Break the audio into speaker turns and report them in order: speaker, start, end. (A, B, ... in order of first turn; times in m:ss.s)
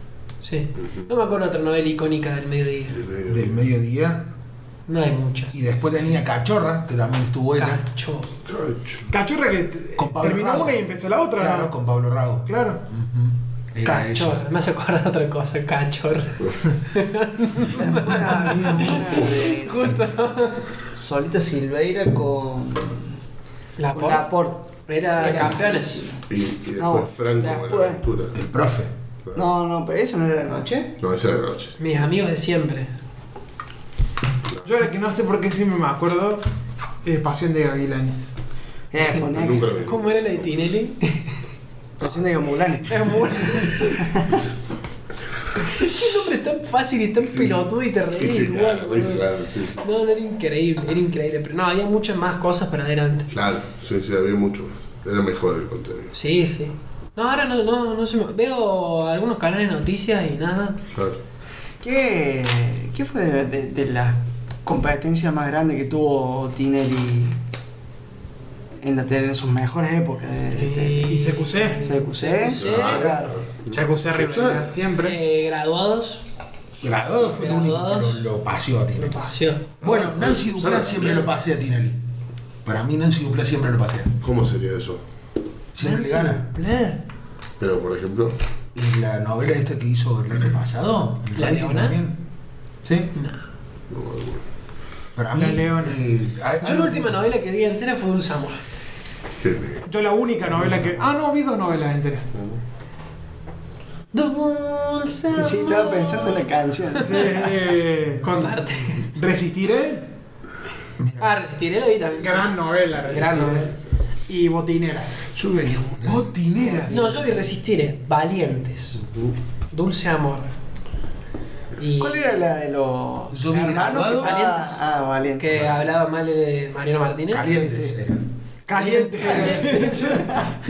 0:00.4-0:03.0 A
0:02.9-0:03.6 B
0:03.3-0:04.3 C
0:04.9-0:05.6 A
0:05.5-0:07.8 C
0:07.6-0:08.3 A
0:08.5-0:09.1 B
0:09.1-0:11.7 D
0:10.0-0:14.4 C
0:12.5-0:12.8 D
0:13.8-0:20.7 A
0:17.8-0:20.0 E
0:20.9-0:23.1 E
0:23.8-0:24.3 A
0:23.9-0:26.2 E
0:24.9-0:26.1 A
0:25.1-0:25.5 B
0:26.3-0:28.4 B
0:26.8-0:28.0 E
0:28.3-0:28.9 C
0:29.4-0:30.9 E
0:31.0-0:31.8 B
0:31.8-0:32.9 A
0:34.6-0:36.4 D
0:37.0-0:38.3 D
0:38.9-0:39.8 E
0:39.1-0:40.2 B
0:39.8-0:41.3 A
0:42.0-0:44.4 E
0:42.9-0:44.1 A
0:45.7-0:49.2 A
0:47.3-0:47.6 B
0:48.2-0:49.9 B
0:49.8-0:53.3 A
0:53.3-0:56.1 B
0:56.1-1:00.8 A
1:00.9-1:01.2 B
1:01.8-1:07.4 E
1:08.8-1:11.1 E
1:10.6-1:13.2 A
1:11.1-1:11.8 D
1:11.8-1:13.4 E
1:12.6-1:14.7 B
1:13.7-1:15.2 D
1:15.0-1:16.3 A
1:16.8-1:22.0 C
1:17.2-1:18.3 A
1:19.0-1:19.7 A
1:19.8-1:21.3 B
1:22.6-1:24.1 C
1:24.2-1:25.0 B
1:25.7-1:26.5 C
1:25.8-1:27.0 A
1:27.6-1:28.4 B
1:28.8-1:32.2 C
1:31.4-1:32.0 A
1:32.8-1:33.1 C
1:33.2-1:33.4 A
1:33.9-1:34.4 B
1:35.2-1:37.2 C
1:35.3-1:36.0 D
1:36.6-1:38.6 A
1:39.4-1:39.8 B
1:39.9-1:42.3 D
1:44.1-1:47.2 A
1:45.3-1:47.6 E
1:47.0-1:48.4 D
1:48.2-1:49.1 A
1:49.0-1:50.1 D
1:51.0-1:51.4 C
1:51.2-1:53.7 A
1:52.2-1:53.7 D
1:52.9-1:53.7 B
1:54.3-1:55.3 D
1:55.4-1:57.2 C
1:56.6-1:57.2 E
1:56.9-1:59.0 A
1:59.7-2:00.5 A
2:01.8-2:02.4 A
2:02.0-2:05.8 E
2:03.3-2:04.4 C
2:03.9-2:04.8 A
2:05.4-2:07.8 A
2:07.3-2:10.2 C
2:07.6-2:07.9 E
2:08.7-2:10.3 D
2:08.8-2:10.0 A
2:09.2-2:10.6 E